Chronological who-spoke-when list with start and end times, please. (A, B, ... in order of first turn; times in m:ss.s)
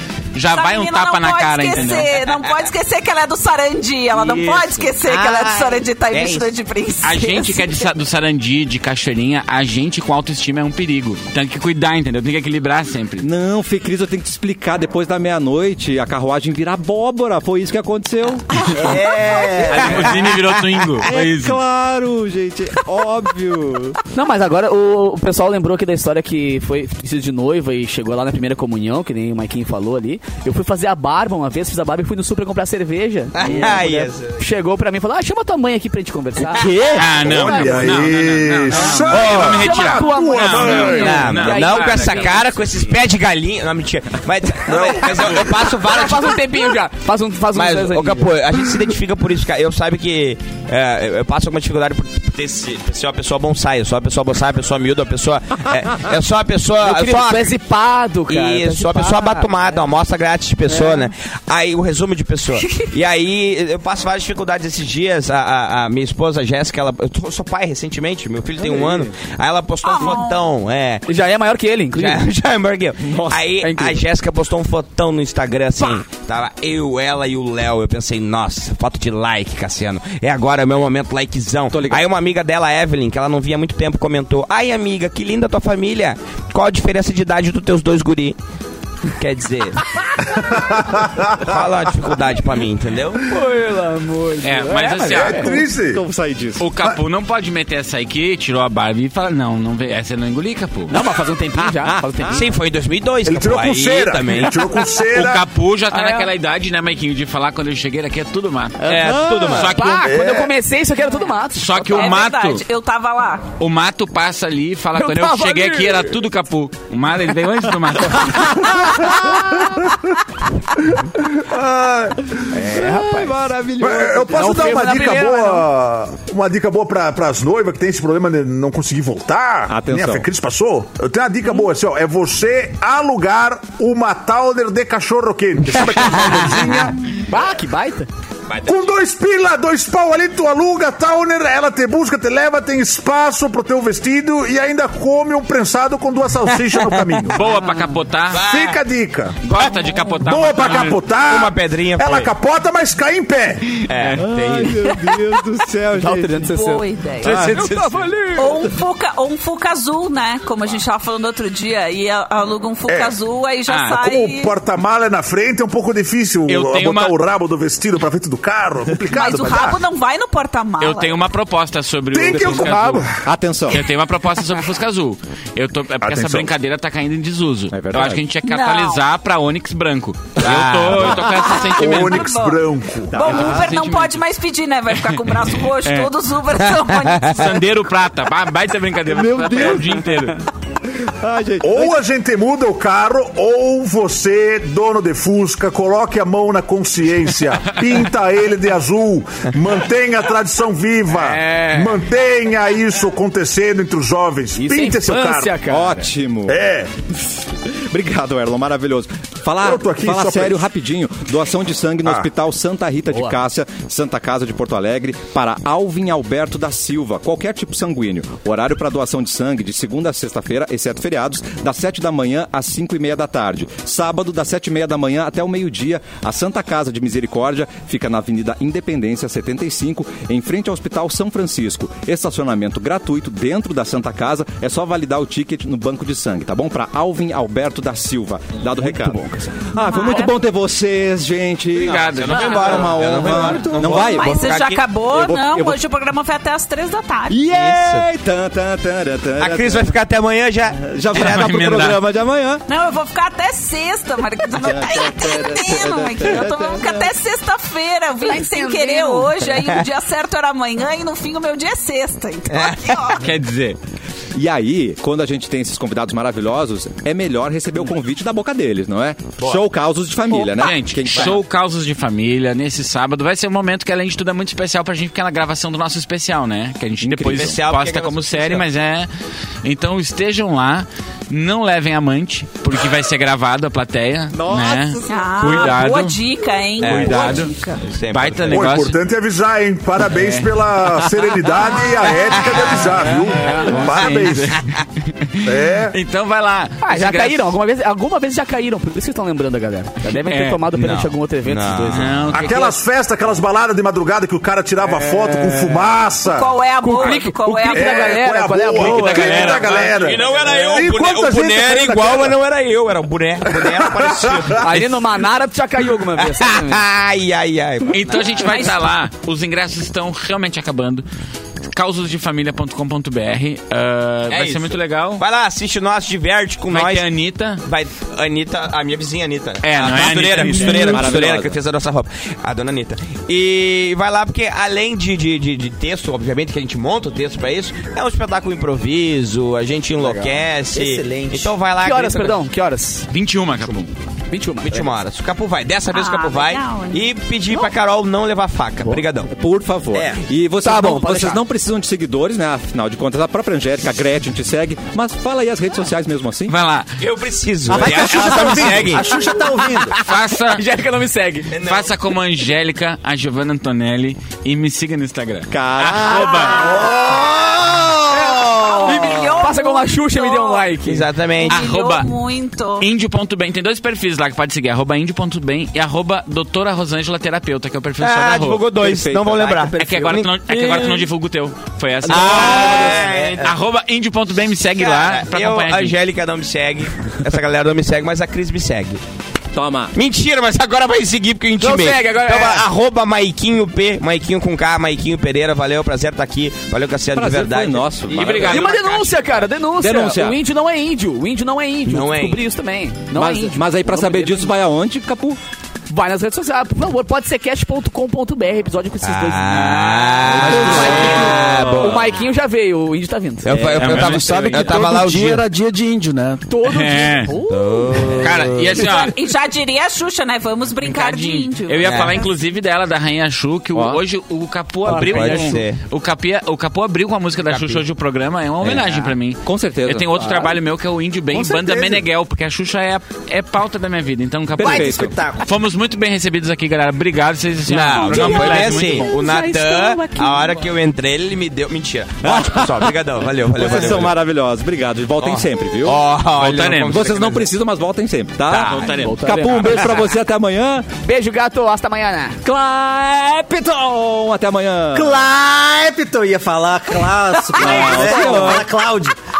0:00.3-0:02.1 A
0:00.5-0:07.9 B
0:04.1-0:04.9 A
0:05.0-0:06.5 C
0:07.0-0:13.3 A
0:13.2-0:18.6 D
0:18.5-0:20.6 C
0:18.8-0:19.7 B
0:19.5-0:20.2 D
0:19.7-0:21.6 A
0:21.1-0:24.0 D
0:24.1-0:38.1 E
0:33.3-0:34.4 C
0:33.4-0:33.9 D
0:36.4-0:37.2 C
0:36.8-0:41.4 F
0:36.9-0:42.9 A
0:38.7-0:42.4 E
0:40.9-0:46.8 C
0:44.7-0:45.4 F
0:45.6-0:48.4 E
0:47.5-0:57.6 C
0:56.8-0:59.5 E
0:58.3-1:11.0 C
1:00.7-1:01.1 E
1:08.6-1:09.2 D
1:09.8-1:10.4 B
1:11.1-1:12.2 E
1:11.9-1:28.4 C
1:13.0-1:13.5 D
1:13.6-1:14.0 E
1:21.7-1:22.0 D
1:29.1-1:29.8 C
1:30.3-1:31.5 F
1:31.4-1:33.3 C
1:33.2-1:35.6 E
1:34.4-1:35.5 A
1:35.0-1:36.0 F
1:35.3-1:36.6 D
1:36.6-1:41.0 A
1:40.9-1:42.5 E
1:41.6-1:42.5 D
1:42.3-1:44.8 C
1:43.2-1:45.4 F
1:45.1-1:50.1 A
1:45.9-1:46.3 E
1:48.8-1:52.2 E
1:48.9-1:49.8 C
1:49.0-1:49.6 D
1:50.0-1:50.5 F
1:51.5-1:52.6 A
1:51.9-1:53.5 B
1:53.6-1:58.6 A
1:55.0-1:56.1 E
1:58.6-1:59.3 E
1:58.8-1:59.4 F
2:00.8-2:02.5 F
2:02.5-2:03.5 E
2:02.5-2:05.0 D
2:03.8-2:17.0 F
2:04.3-2:05.6 E
2:09.7-2:10.3 D
2:16.0-2:16.7 E
2:16.4-2:16.7 C
2:17.3-2:18.1 E
2:18.5-2:18.9 C
2:18.6-2:27.4 F
2:27.3-2:28.4 A
2:27.4-2:28.0 E
2:28.3-2:28.8 C
2:28.4-2:29.4 F
2:29.4-2:31.0 A
2:30.1-2:33.8 F
2:30.8-2:32.3 C
2:33.8-2:34.9 C
2:34.1-2:36.4 D
2:35.9-2:38.7 E
2:36.4-2:37.4 B
2:37.2-2:38.7 D
2:38.4-2:44.5 B
2:42.9-2:43.2 F
2:43.7-2:44.0 A
2:43.9-2:49.8 F
2:46.5-2:47.1 A
2:49.1-2:51.2 B
2:50.8-2:53.0 A
2:52.1-2:53.2 F
2:52.4-2:53.8 D
2:52.7-2:53.0 E
2:53.7-3:02.4 A
2:56.0-2:56.5 F
2:57.7-2:58.2 D
2:58.4-2:59.0 B
3:00.4-3:01.5 C
3:01.2-3:07.6 B
3:01.6-3:03.2 F
3:03.1-3:03.7 D
3:03.2-3:04.2 A
3:05.0-3:06.1 A
3:07.1-3:07.5 C
3:07.3-3:10.4 A
3:09.1-3:10.2 D
3:11.0-3:12.0 D
3:11.6-3:25.6 F
3:21.1-3:22.0 E
3:24.5-3:26.1 E
3:25.6-3:26.6 D
3:26.5-3:26.9 F
3:27.9-4:05.8 D
3:29.6-3:30.6 F
3:32.0-3:32.3 F
3:33.1-3:33.4 E
3:58.7-3:59.6 E
3:59.8-4:00.3 B
4:01.7-4:03.3 A
4:01.9-4:04.8 C
4:03.4-4:03.7 E
4:03.5-4:03.8 G
4:03.8-4:07.4 B
4:07.3-4:09.9 D
4:07.5-4:08.1 C
4:09.4-4:11.7 C
4:10.8-4:12.6 D
4:11.1-4:12.0 A
4:12.7-4:23.2 B
4:14.6-4:17.1 D
4:18.2-4:19.6 E
4:22.5-4:23.0 C
4:23.2-4:23.8 A
4:24.4-4:31.4 D
4:29.4-4:29.6 C
4:30.5-4:39.1 A
4:37.0-4:37.6 D
4:37.3-4:38.7 C
4:39.6-4:46.2 A
4:44.3-4:45.8 D
4:45.0-4:47.8 B
4:46.8-4:48.7 C
4:46.8-4:47.5 A
4:46.9-4:47.5 D
4:48.1-4:49.0 A
4:48.5-4:54.6 F
4:50.1-4:50.5 A
4:52.2-4:53.0 C
4:52.9-4:53.9 E
4:53.0-4:57.5 A
4:54.0-4:54.2 C
4:55.4-4:55.9 F
4:56.8-5:02.2 E
5:00.2-5:00.6 A
5:00.7-5:02.2 C
5:01.9-5:02.8 A
5:02.3-5:06.6 F
5:04.8-5:05.9 E
5:06.2-5:08.2 B
5:06.8-5:09.8 E
5:07.7-5:12.4 F
5:08.8-5:10.2 A
5:09.6-5:14.8 C
5:13.6-5:14.7 F
5:14.6-5:16.8 E
5:16.2-5:18.7 C
5:17.9-5:21.0 A
5:21.6-5:25.2 A
5:24.3-5:42.4 C
5:26.7-5:27.6 A
5:29.6-5:31.0 A
5:30.4-5:31.6 D
5:40.0-5:41.5 G
5:41.8-5:43.1 E
5:43.1-5:43.9 A
5:44.3-5:45.0 E
5:44.6-5:49.3 C
5:45.9-5:47.7 B
5:49.3-5:56.5 D
5:49.9-5:50.2 C
5:50.6-5:51.4 E
5:56.5-5:56.9 A
5:57.0-5:59.2 C
5:57.7-5:59.9 G
5:57.7-5:58.9 D
5:59.6-6:01.5 E
6:00.0-6:00.6 A
6:01.5-6:01.9 C
6:01.6-6:06.8 A
6:05.5-6:06.5 D
6:06.3-6:07.5 C
6:06.5-6:06.9 E
6:06.8-6:07.2 G
6:08.1-6:11.1 E
6:08.3-6:09.1 C
6:08.6-6:10.7 B
6:10.8-6:11.6 C
6:11.4-6:12.9 B
6:11.5-6:12.1 A
6:12.8-6:18.6 A
6:18.0-6:19.8 C
6:18.8-6:20.4 D
6:19.8-6:26.0 A
6:20.5-6:21.0 E
6:22.1-6:23.2 E
6:22.1-6:23.6 C
6:24.6-6:29.0 C
6:29.5-6:29.9 D
6:29.9-6:38.7 C
6:31.6-6:32.7 E
6:37.1-6:38.8 D
6:38.1-6:39.4 A
6:38.5-6:44.5 E
6:39.7-6:40.4 D
6:41.8-6:42.4 C
6:43.1-6:45.4 D
6:45.9-6:53.9 E
6:49.0-6:52.2 C
6:50.3-6:52.0 D
6:53.4-6:55.4 C
6:53.7-6:54.8 A
6:53.8-6:56.4 H
6:56.5-6:58.2 E
6:56.6-6:57.3 A
6:57.4-6:58.8 C
6:58.2-6:59.1 A
6:58.8-7:02.3 B
7:00.8-7:19.1 A
7:01.8-7:02.2 C
7:03.7-7:04.0 D
7:04.8-7:05.8 C
7:05.0-7:05.5 E
7:07.5-7:07.8 C
7:08.6-7:10.2 D
7:10.2-7:10.5 E
7:11.4-7:11.7 G
7:11.5-7:12.0 E
7:14.6-7:15.2 D
7:14.6-7:15.4 G
7:17.7-7:24.2 C
7:18.0-7:20.7 E
7:22.2-7:22.9 D
7:23.5-7:26.0 D
7:25.2-7:27.5 C
7:26.4-7:27.0 A
7:26.8-7:30.9 D
7:28.5-7:29.0 C
7:28.5-7:29.2 A
7:28.9-7:29.9 E
7:31.0-7:32.4 E
7:32.4-7:35.2 D
7:34.9-7:39.1 G
7:37.5-7:38.6 E
7:37.5-7:38.7 D